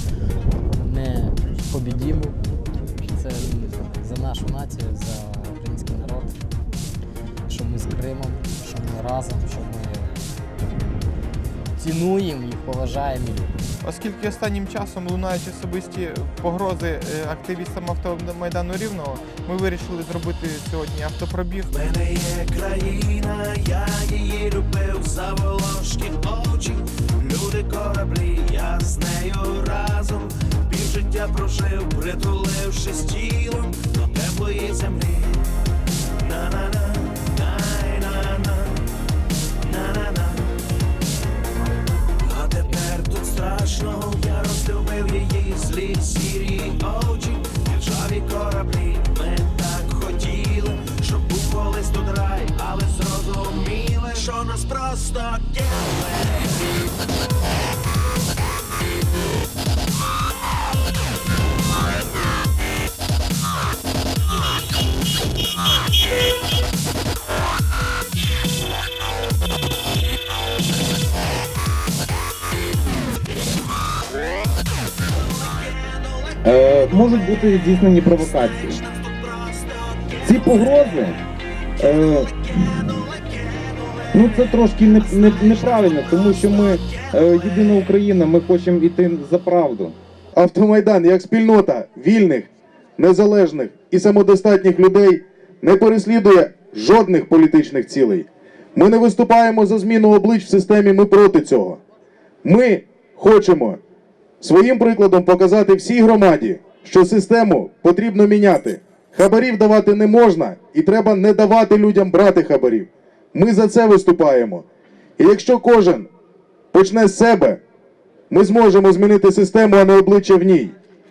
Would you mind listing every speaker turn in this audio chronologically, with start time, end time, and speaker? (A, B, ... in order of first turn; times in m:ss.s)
0:00.7-0:02.4 A
0:03.0-0:06.4 A
0:07.5-0:10.2 A
0:11.8-0:13.6 A
0:13.8-0:21.7 B
0:21.7-0:35.5 C
0:36.2-0:38.9 C
0:39.6-0:40.6 C
0:42.2-0:56.5 C
1:15.3-1:21.0 C
1:16.4-1:18.8 D
1:20.2-1:21.2 D
1:21.8-1:22.3 D
1:22.0-1:27.9 C
1:24.1-1:30.0 D
1:30.3-1:41.8 E
1:42.4-1:43.8 E
1:44.4-1:54.6 E
1:55.2-1:56.1 E
1:56.7-1:57.6 E
1:58.3-2:00.7 E